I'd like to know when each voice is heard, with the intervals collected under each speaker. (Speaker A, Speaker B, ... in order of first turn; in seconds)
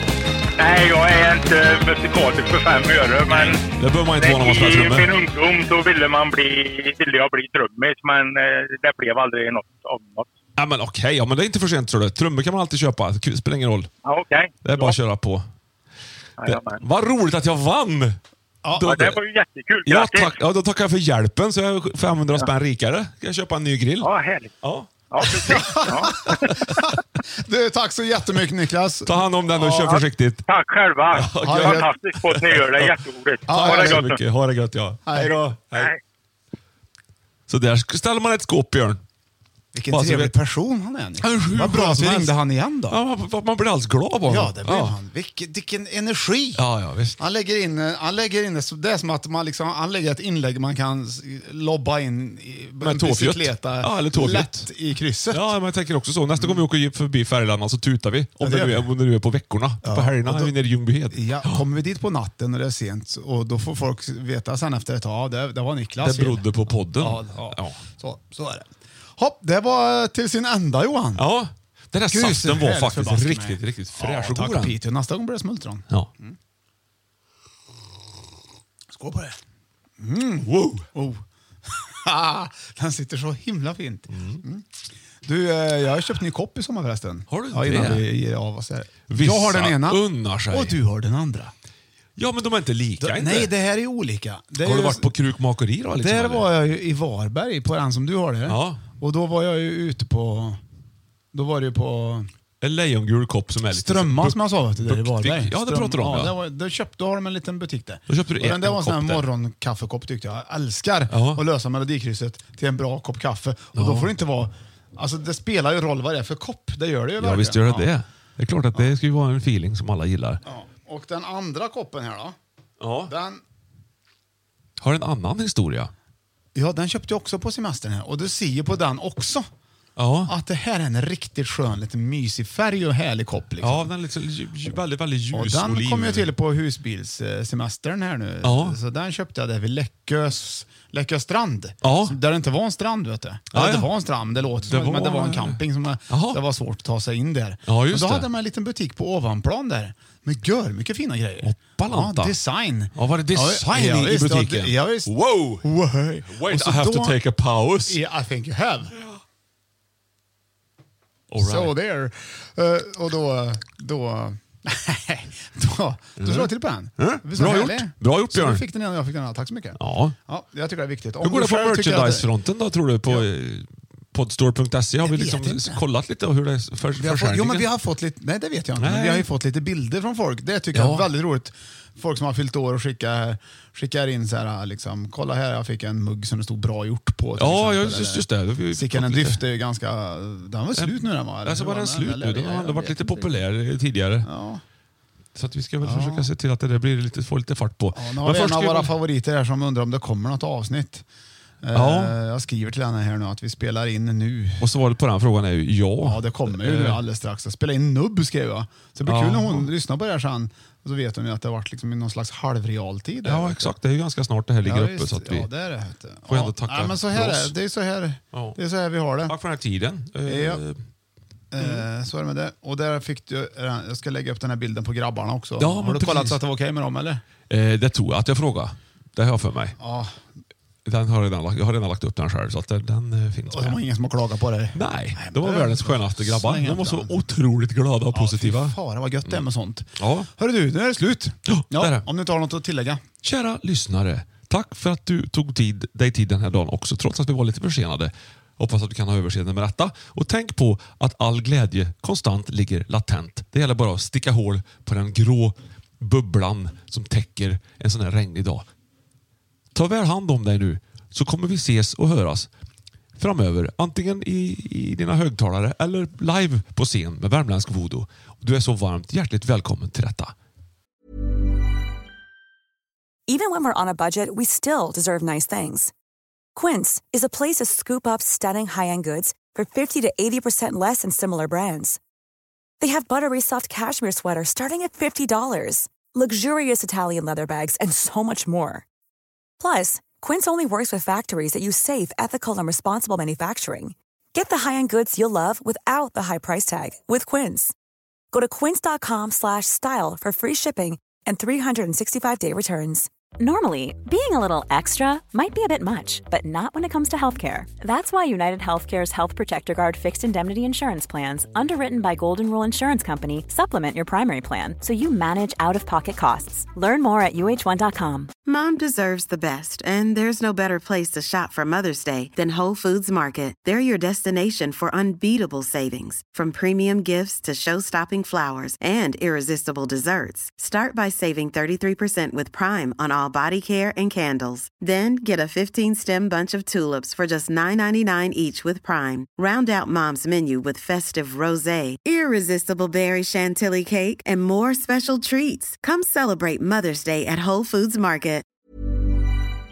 Speaker A: 0.6-3.6, 4.2-10.3, 14.1-15.0, 16.4-16.8, 18.9-20.4, 24.0-24.5, 25.1-26.4, 29.7-34.2, 35.7-36.0
Speaker B: 3.3-5.1, 10.6-13.9, 14.6-15.5, 16.4-18.2, 18.8-19.2, 19.9-26.8, 29.1-30.4, 31.1-35.9, 37.5-39.0, 39.9-40.4, 41.2-45.0, 46.6-47.2, 52.8-54.7, 55.3-61.6, 66.0-67.8, 71.2-74.8, 80.4-80.9, 84.1-84.4, 87.3-88.1, 89.1-90.8, 92.2-93.5, 94.6-96.5, 98.5-98.8, 102.6-106.3, 108.1-109.3, 111.1-111.4, 113.8-114.1, 117.2-120.4, 122.8-123.1, 124.8-125.9, 130.0-130.3, 133.6-136.3, 138.4-138.8, 141.8-142.2, 143.5-143.9, 144.6-146.4, 147.7-148.3, 151.4-152.3, 152.9-155.7, 156.3-158.0, 161.3-161.7, 166.2-168.6, 169.8-170.2, 171.2-177.7, 178.8-179.3, 180.7-181.1, 187.4-189.4, 190.8-194.3, 195.3-199.0, 201.7-202.2, 204.6-207.0, 209.1-209.7, 213.2-215.5, 216.3-217.6, 218.3-218.6, 219.3-220.8, 221.6-221.9, 225.6-226.4, 227.5-229.8, 230.8-233.8, 234.7-239.4, 240.0-240.3, 241.5-242.1, 243.2-258.7, 259.7-262.5, 263.2-270.3
Speaker C: 18.6-19.0, 25.4-30.0, 31.4-31.9, 33.5-34.2, 35.0-35.5, 39.7-43.0, 44.3-46.6, 47.2-55.5, 56.4-56.6, 58.4-58.9, 59.8-60.5, 61.1-71.3, 72.1-76.4, 78.9-79.4, 80.0-84.7, 85.2-91.5, 93.0-95.1, 96.0-100.6, 101.3-102.3, 103.7-117.9, 120.4-122.4, 123.1-123.4, 126.5-129.5, 130.3-133.9, 135.3-157.2, 157.9-158.9, 161.4-172.3, 175.0-175.8, 176.9-193.4, 194.2-194.6, 195.8-196.3, 197.9-201.1, 201.6-204.7, 206.0-213.7, 214.6-219.4, 220.2-220.6, 221.5-227.2, 229.8-230.3, 233.5-237.2, 238.1-243.0
Speaker D: 273.3-275.9, 276.6-282.0, 282.8-288.9, 289.6-297.7, 298.3-303.1
Speaker E: 303.4-318.3
Speaker F: 318.5-348.4